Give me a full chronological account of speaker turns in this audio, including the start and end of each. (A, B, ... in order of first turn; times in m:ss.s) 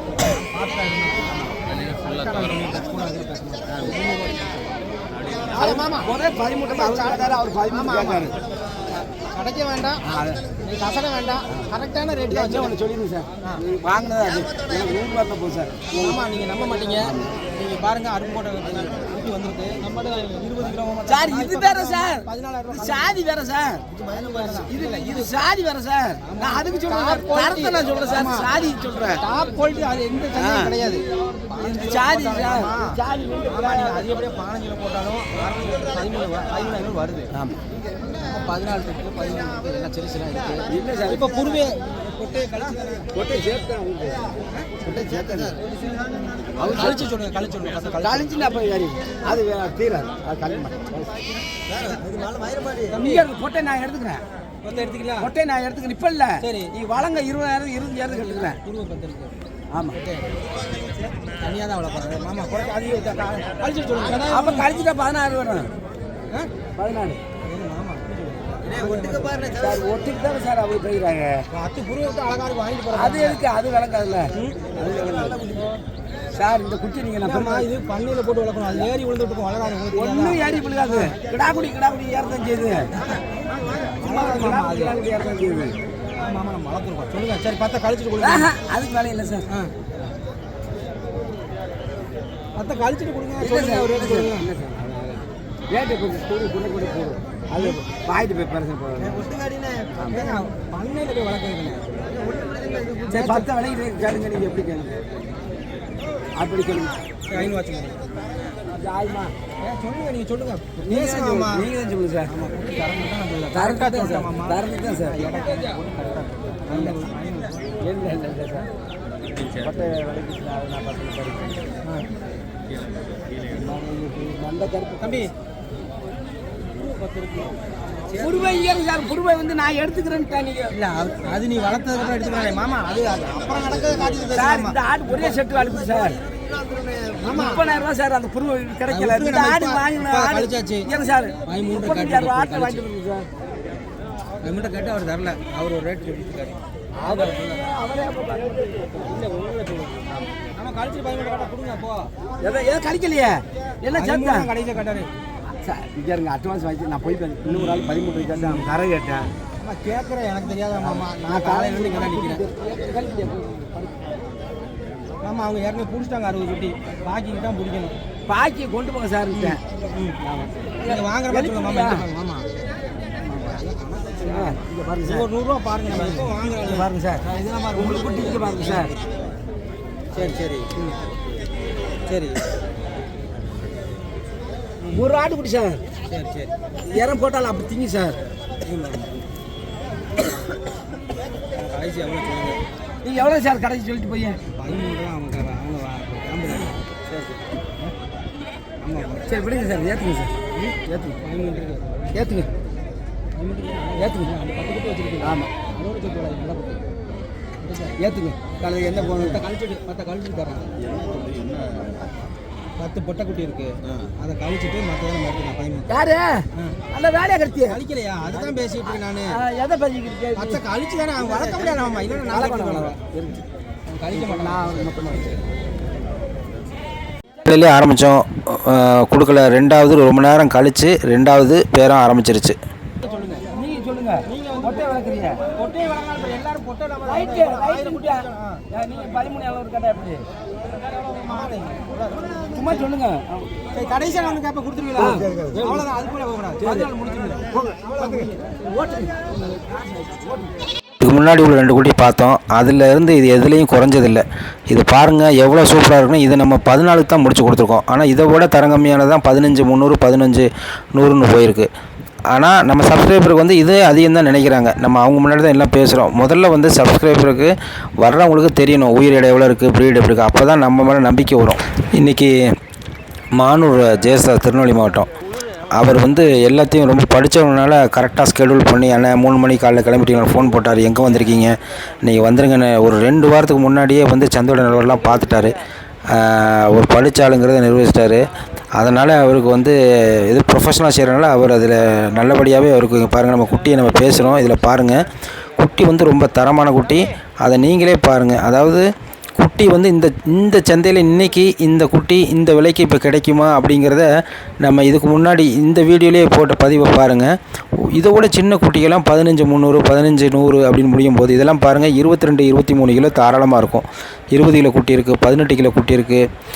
0:00.2-0:04.5 A
0:05.3-0:06.1 A
0:05.6-0:08.3 B
0:06.7-0:08.3 A
0:09.3-0:10.0 A
0:10.1-0:10.4 B
0:10.6-0:12.8 A
0:12.2-0:16.2 B
0:15.9-0:23.2 A
0:17.0-0:17.3 B
0:21.1-0:23.8 B
0:23.9-0:25.3 A
0:24.6-0:29.2 B
0:26.2-0:28.5 A
0:29.2-0:37.3 A
0:30.3-0:30.8 B
0:31.6-0:34.0 B
0:38.2-0:43.1 A
0:40.7-0:41.6 B
0:43.1-0:45.6 B
0:46.5-0:48.4 A
0:46.6-0:47.0 B
0:48.0-0:51.2 B
0:51.7-0:53.3 A
0:52.9-0:54.2 B
0:54.6-0:55.3 A
0:55.2-0:58.6 B
0:56.4-0:56.7 A
0:58.1-0:59.3 A
0:59.7-1:00.0 B
1:00.0-1:00.2 A
1:01.2-1:04.7 A
1:03.9-1:05.7 B
1:06.8-1:07.2 B
1:07.4-1:09.7 A
1:08.7-1:11.4 B
1:11.5-1:13.4 A
1:12.9-1:15.6 B
1:14.3-1:15.8 A
1:16.3-1:17.7 B
1:17.2-1:21.1 A
1:19.9-1:22.9 B
1:23.6-1:25.0 A
1:24.0-1:25.7 B
1:26.2-1:28.5 A
1:28.2-1:29.5 B
1:29.5-1:30.1 A
1:32.6-1:35.2 A
1:33.4-1:35.0 B
1:35.7-1:39.3 B
1:39.0-1:43.5 A
1:40.0-1:40.5 B
1:43.1-1:45.0 B
1:46.4-1:47.5 B
1:47.3-1:48.1 A
1:48.7-1:49.3 B
1:49.6-1:51.7 A
1:50.8-1:52.3 B
1:52.2-1:57.7 A
1:53.5-1:55.3 B
1:56.7-1:57.0 B
1:57.8-1:58.7 B
1:59.3-1:59.7 A
1:59.6-2:01.6 B
2:03.5-2:04.2 A
2:03.5-2:05.2 B
2:05.0-2:05.3 A
2:06.7-2:08.5 A
2:08.2-2:10.7 B
2:10.7-2:15.4 A
2:14.2-2:16.2 B
2:17.1-2:17.6 A
2:17.2-2:23.3 B
2:18.9-2:20.9 A
2:21.4-2:22.8 A
2:24.4-2:27.6 A
2:27.0-2:29.1 B
2:29.0-2:32.1 A
2:32.4-2:34.5 B
2:33.9-2:35.1 A
2:35.6-2:39.3 B
2:37.5-2:38.7 A
2:39.6-2:42.4 A
2:40.8-2:43.7 B
2:45.2-2:47.9 A
2:48.3-2:49.6 B
2:49.3-2:50.2 A
2:50.2-2:52.1 B
2:50.8-2:52.5 A
2:53.3-2:58.9 A
2:54.2-2:55.3 B
2:55.8-2:58.9 B
3:00.1-3:01.0 A
3:02.1-3:02.4 A
3:04.9-3:05.8 B
3:06.1-3:06.5 A
3:06.9-3:08.2 B
3:08.6-3:09.2 A
3:11.5-3:12.6 A
3:13.0-3:14.4 B
3:14.6-3:16.7 A
3:18.8-3:19.2 A
3:19.3-3:21.2 B
3:20.5-3:22.2 A
3:22.1-3:22.5 B
3:23.4-3:26.8 A
3:24.0-3:24.3 B
3:25.2-3:25.5 B
3:27.6-3:28.0 A
3:28.0-3:29.4 B
3:29.0-3:30.8 A
3:32.8-3:35.9 A
3:35.9-3:43.4 B
3:37.6-3:39.4 A
3:40.3-3:43.0 A
3:43.9-3:45.2 A
3:44.1-3:45.4 B
3:47.4-3:52.6 C
3:53.0-3:53.5 A
3:53.5-3:55.4 B
3:54.2-3:58.6 A
3:57.1-4:00.2 B
4:00.9-4:02.8 A
4:02.5-4:04.3 B
4:03.7-4:08.5 A
4:04.9-4:05.8 B
4:06.6-4:06.9 B
4:07.6-4:09.4 B
4:11.0-4:21.7 C
4:22.3-4:32.3 C
4:33.4-4:35.1 C
4:35.7-4:45.5 C
4:46.1-4:48.2 C
4:48.8-4:55.0 C
4:55.6-5:04.1 C
5:04.6-5:16.2 C